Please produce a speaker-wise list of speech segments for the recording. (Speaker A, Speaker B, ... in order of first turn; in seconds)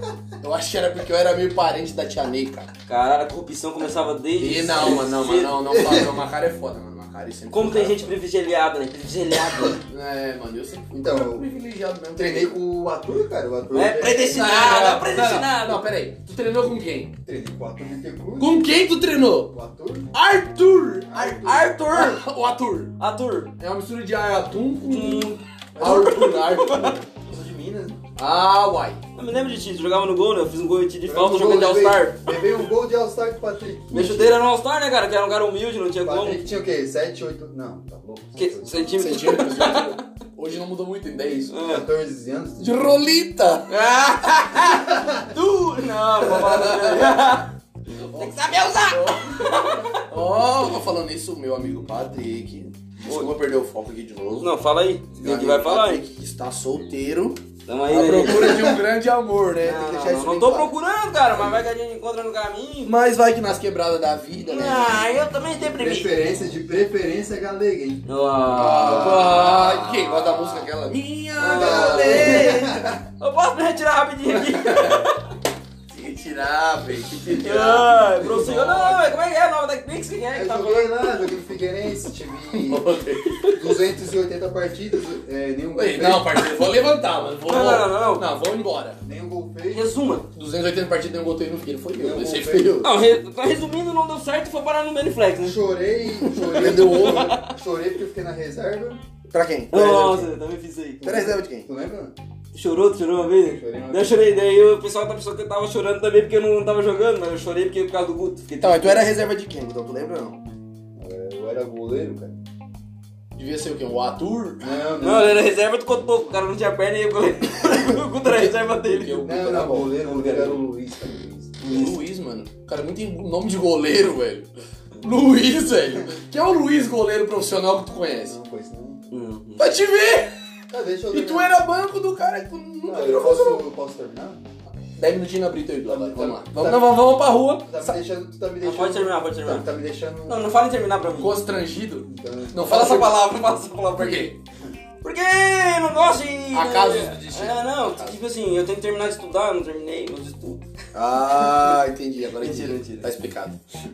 Speaker A: 0.4-2.7, 4.4-8.1, 9.7-12.6, 14.3-17.1, 18.4-19.5, 20.1-23.0, 23.6-27.0, 28.2-29.0, 39.0-41.5, 42.6-44.6, 46.2-54.5, 55.1-60.7, 62.8-65.1, 68.5-72.8, 74.3-75.0, 75.9-79.0, 82.5-83.6, 85.7-89.0, 90.3-92.9, 96.3-97.4, 99.3-100.3, 101.0-101.7, 108.5-110.4, 113.3-114.7, 117.9-120.0, 121.6-128.4, 129.6-130.5, 131.1-133.6, 135.0-138.0, 141.2-143.2, 144.0-144.4, 146.5-148.2, 150.9-153.6
Speaker B: 2.9-5.6, 7.5-9.8, 13.7-15.9, 21.4-22.2, 23.0-23.5, 24.9-27.0, 29.1-32.6, 33.9-36.4, 38.4-40.0, 41.5-41.9, 43.7-47.5, 48.1-50.0, 53.0-53.3, 54.4-56.0, 57.6-58.8, 59.6-62.9, 64.4-66.1, 68.0-70.7, 71.4-75.2, 77.3-81.1, 87.5-88.2, 89.7-90.2, 92.8-95.6, 96.3-97.5, 99.7-101.0, 102.5-109.1, 115.0-120.6, 129.1-129.7, 138.6-139.7, 140.3-141.4, 142.6-144.3, 145.0-150.6, 151.5-151.8, 152.4-153.1
Speaker C: 5.7-6.1, 10.9-11.5, 12.2-14.5, 17.2-18.6, 19.5-20.1, 21.1-21.7, 25.8-26.2, 27.1-28.0, 31.1-34.4, 36.0-39.0, 41.6-43.0, 44.8-45.3, 65.7-69.9, 71.5-73.0, 78.2-78.8, 80.3-86.5, 89.0-90.0, 92.0-92.8, 95.4-99.0, 101.0-102.1, 103.6-104.4, 111.0-112.4, 114.6-115.4, 119.2-121.9, 128.2-129.0, 130.7-131.5, 132.9-134.4, 135.9-137.0, 137.6-140.4, 142.1-143.1